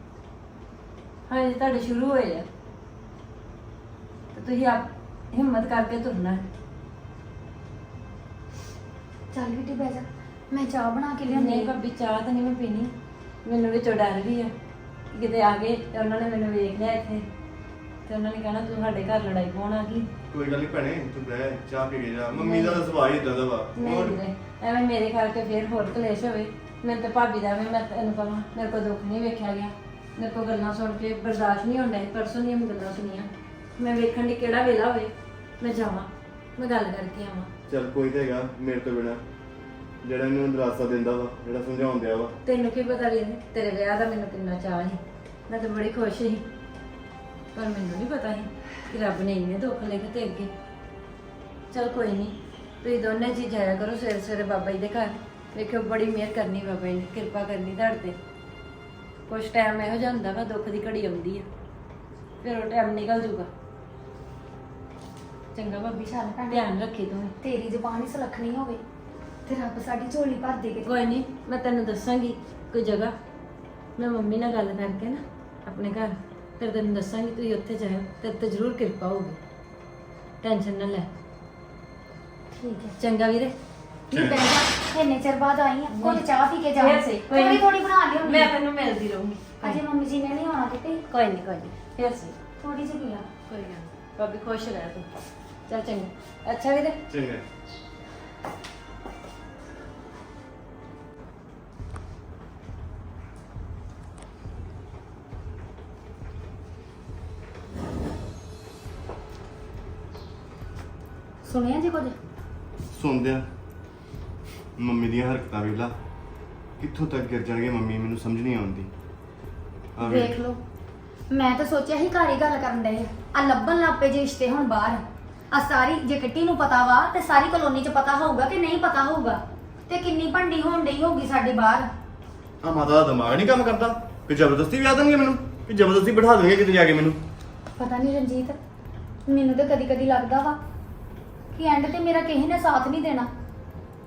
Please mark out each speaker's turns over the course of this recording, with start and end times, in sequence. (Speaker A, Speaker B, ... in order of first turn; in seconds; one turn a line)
Speaker A: 1.3-2.5
Speaker A: 4.3-6.4
Speaker B: 9.3-11.7
Speaker A: 11.3-12.9
Speaker A: 13.4-14.5
Speaker A: 15.1-17.2
Speaker A: 18.1-20.1
Speaker C: 20.3-24.2
Speaker A: 22.3-22.8
Speaker A: 23.8-37.5
Speaker C: 37.7-39.2
Speaker C: 40.0-42.3
Speaker A: 42.4-46.5
Speaker A: 47.5-50.5
Speaker A: 51.7-58.2
Speaker A: 59.3-61.5
Speaker A: 62.4-63.5
Speaker A: 65.5-67.3
Speaker B: 65.9-66.7
Speaker B: 67.4-68.8
Speaker B: 69.5-71.1
Speaker A: 70.8-73.1
Speaker A: 74.0-79.4
Speaker A: 80.4-81.1
Speaker B: 82.6-83.0
Speaker A: 83.0-83.5
Speaker B: 84.1-88.5
Speaker C: 84.1-84.4
Speaker A: 85.9-87.7
Speaker A: 88.2-89.8
Speaker B: 89.6-91.0
Speaker A: 91.1-92.3
Speaker B: 92.6-93.3
Speaker A: 93.5-95.1
Speaker A: 95.7-97.0
Speaker C: 97.1-97.4
Speaker B: 111.4-112.2
Speaker C: 112.9-113.5
Speaker C: 114.8-115.9
Speaker C: 116.8-118.9
Speaker C: 120.0-120.3
Speaker B: 120.0-120.6
Speaker B: 121.3-131.9
Speaker C: 132.6-137.2
Speaker B: 137.8-138.6
Speaker B: 139.3-140.6
Speaker B: 141.5-143.3